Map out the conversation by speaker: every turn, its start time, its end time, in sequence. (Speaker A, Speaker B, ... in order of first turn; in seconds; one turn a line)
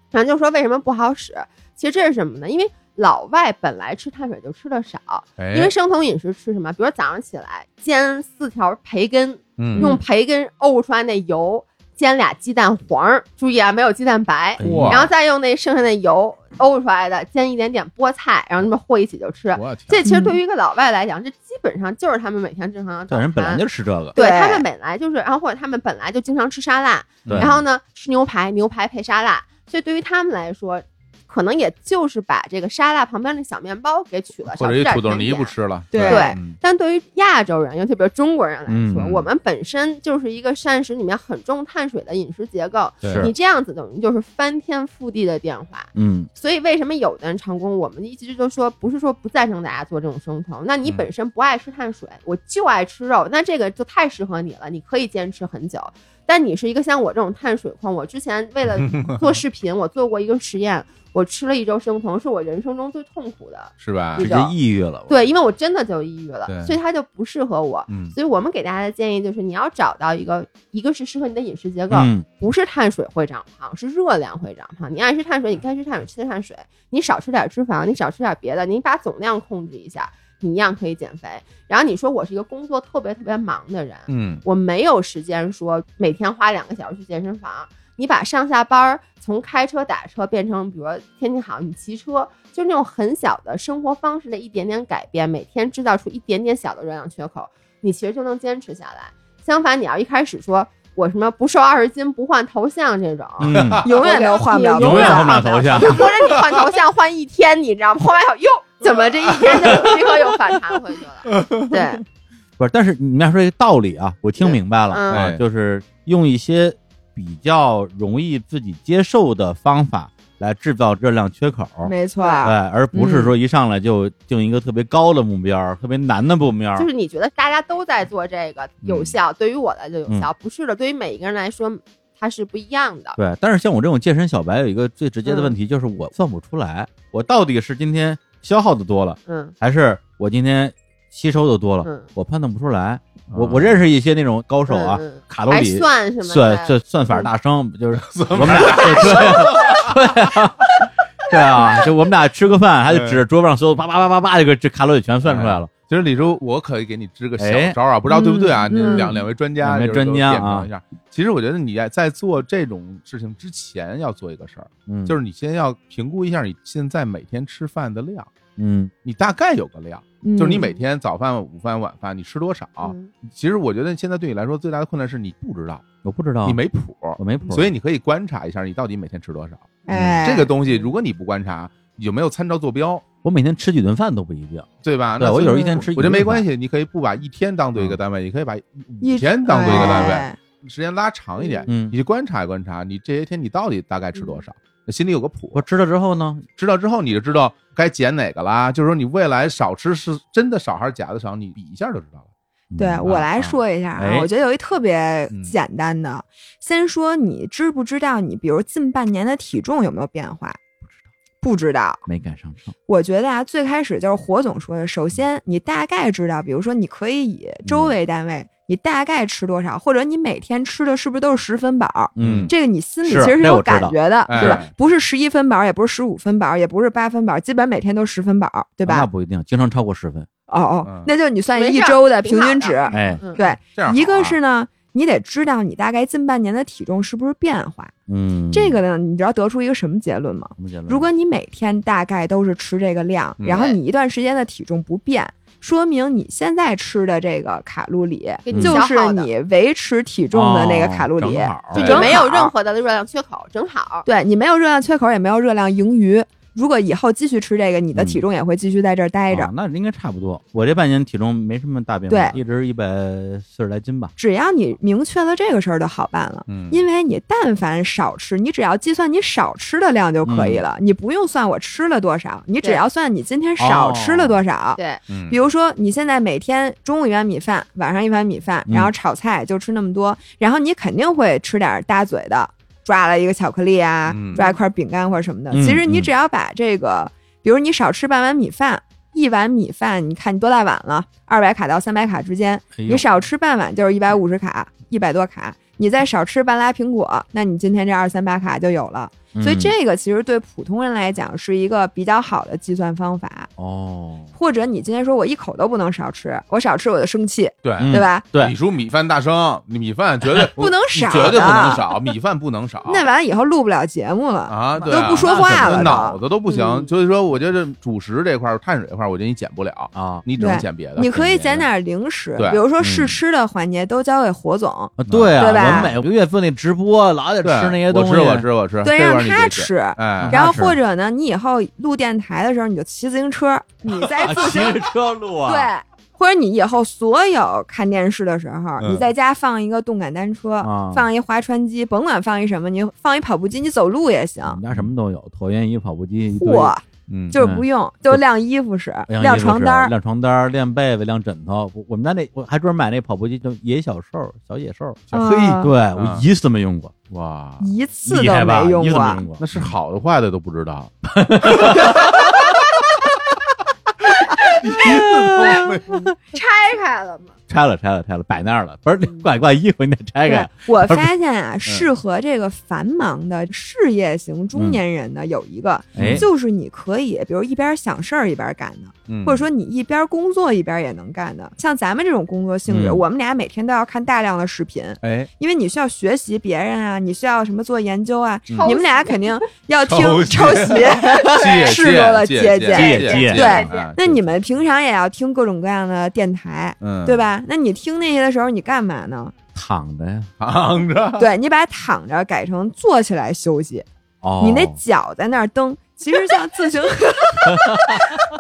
Speaker A: 0.1-23.6
Speaker B: 5.4-5.7
Speaker B: 9.6-9.8
Speaker C: 14.6-15.1
Speaker B: 14.6-15.1
Speaker B: 19.5-20.0
Speaker D: 20.1-20.4
Speaker C: 23.1-24.2
Speaker A: 24.1-64.5
Speaker D: 24.2-24.7
Speaker B: 27.3-27.6
Speaker C: 27.3-27.6
Speaker B: 34.5-36.6
Speaker D: 35.9-36.4
Speaker C: 38.7-39.1
Speaker B: 39.0-39.2
Speaker B: 43.0-43.3
Speaker C: 46.0-46.3
Speaker B: 58.8-59.3
Speaker B: 63.8-64.2
Speaker C: 64.2-65.2
Speaker A: 65.1-112.0
Speaker B: 66.5-66.8
Speaker B: 67.9-68.2
Speaker C: 71.9-72.2
Speaker B: 84.1-84.4
Speaker C: 103.4-103.9
Speaker B: 103.5-103.8
Speaker D: 103.8-105.9
Speaker C: 104.8-106.1
Speaker B: 109.3-109.9
Speaker B: 111.3-111.8
Speaker C: 112.6-126.9
Speaker A: 114.4-115.3
Speaker B: 115.1-115.4
Speaker D: 121.8-123.3
Speaker A: 122.2-122.5
Speaker A: 126.8-133.2
Speaker B: 128.8-129.2
Speaker C: 133.2-155.7
Speaker A: 135.3-135.6
Speaker A: 139.3-139.5
Speaker A: 141.8-142.1
Speaker B: 143.3-143.8
Speaker A: 144.7-147.3
Speaker B: 148.0-150.4
Speaker B: 152.9-153.2
Speaker B: 155.2-168.3
Speaker C: 157.4-157.8
Speaker D: 158.1-159.2
Speaker A: 158.8-159.1
Speaker C: 159.6-160.7
Speaker C: 164.9-165.2
Speaker C: 168.6-168.9
Speaker B: 169.0-175.8
Speaker D: 170.2-170.7
Speaker A: 172.8-173.1
Speaker C: 176.0-176.6
Speaker B: 176.4-183.1
Speaker C: 177.2-177.7
Speaker D: 179.9-180.5
Speaker C: 179.9-180.2
Speaker C: 183.2-184.7
Speaker B: 184.8-195.7
Speaker C: 185.2-186.5
Speaker D: 185.4-185.9
Speaker D: 189.0-190.4
Speaker C: 189.7-190.1
Speaker A: 191.4-191.7
Speaker C: 191.7-191.9
Speaker C: 195.5-196.5
Speaker B: 196.6-202.3
Speaker C: 202.7-204.3
Speaker D: 202.8-210.6
Speaker B: 205.3-205.6
Speaker D: 211.4-212.1
Speaker C: 212.1-212.7
Speaker D: 212.9-229.1
Speaker C: 217.7-217.9
Speaker C: 222.2-224.6
Speaker B: 222.2-222.5
Speaker B: 224.3-224.7
Speaker C: 228.8-230.3
Speaker D: 230.5-237.9
Speaker B: 230.8-231.1
Speaker A: 231.5-233.4
Speaker C: 232.9-233.2
Speaker B: 233.1-234.4
Speaker C: 238.1-238.8
Speaker D: 238.5-252.5
Speaker C: 240.6-241.1
Speaker B: 243.4-243.7
Speaker A: 243.5-243.8
Speaker A: 248.4-249.3
Speaker C: 248.5-248.8
Speaker C: 250.3-251.9
Speaker B: 251.7-252.3
Speaker A: 251.8-254.1
Speaker D: 254.1-259.5
Speaker C: 257.9-258.2
Speaker C: 259.3-264.1
Speaker D: 262.1-262.4
Speaker D: 264.2-303.5
Speaker B: 266.5-266.8
Speaker C: 270.2-270.6
Speaker C: 273.6-274.4
Speaker B: 275.1-275.4
Speaker C: 278.7-278.9
Speaker B: 284.1-284.4
Speaker A: 284.3-284.6
Speaker C: 285.5-286.1
Speaker C: 292.8-293.1
Speaker C: 299.4-299.8
Speaker C: 303.6-304.3
Speaker D: 304.4-308.3
Speaker B: 307.6-313.1
Speaker C: 307.8-308.5
Speaker D: 310.4-311.9
Speaker C: 310.9-311.8
Speaker D: 312.9-316.2
Speaker B: 314.5-321.6
Speaker C: 314.9-316.1
Speaker A: 316.5-316.9
Speaker C: 319.9-320.2
Speaker D: 320.4-326.0
Speaker C: 321.0-321.6
Speaker B: 322.4-322.6
Speaker C: 322.8-323.2
Speaker C: 325.0-328.5
Speaker B: 325.1-326.0
Speaker B: 327.4-330.4
Speaker D: 328.8-334.9
Speaker C: 330.2-330.8
Speaker C: 333.9-335.7
Speaker D: 335.4-344.6
Speaker B: 338.8-339.1
Speaker C: 340.6-341.1
Speaker C: 344.4-346.8
Speaker D: 346.4-349.9
Speaker B: 347.1-347.4
Speaker C: 347.4-348.2
Speaker C: 349.1-355.0
Speaker B: 355.1-356.3
Speaker D: 355.1-355.7
Speaker C: 355.6-356.9
Speaker B: 357.1-357.7
Speaker D: 357.6-359.2
Speaker C: 358.1-359.7
Speaker B: 359.4-362.1
Speaker C: 361.1-362.4
Speaker B: 364.6-365.9
Speaker C: 364.7-366.1
Speaker A: 366.3-367.4
Speaker C: 367.5-371.1
Speaker D: 370.3-399.3
Speaker C: 374.6-374.8
Speaker C: 376.0-376.3
Speaker B: 376.0-376.2
Speaker B: 379.1-379.5
Speaker C: 382.7-383.0
Speaker B: 385.0-385.3
Speaker B: 388.5-388.8
Speaker A: 388.6-389.5
Speaker B: 389.8-394.4
Speaker C: 392.7-393.7
Speaker A: 393.1-393.9
Speaker B: 396.8-397.3
Speaker C: 399.6-400.3
Speaker B: 400.4-401.3
Speaker D: 401.2-403.9
Speaker C: 404.2-404.8
Speaker D: 404.4-408.1
Speaker C: 407.5-408.1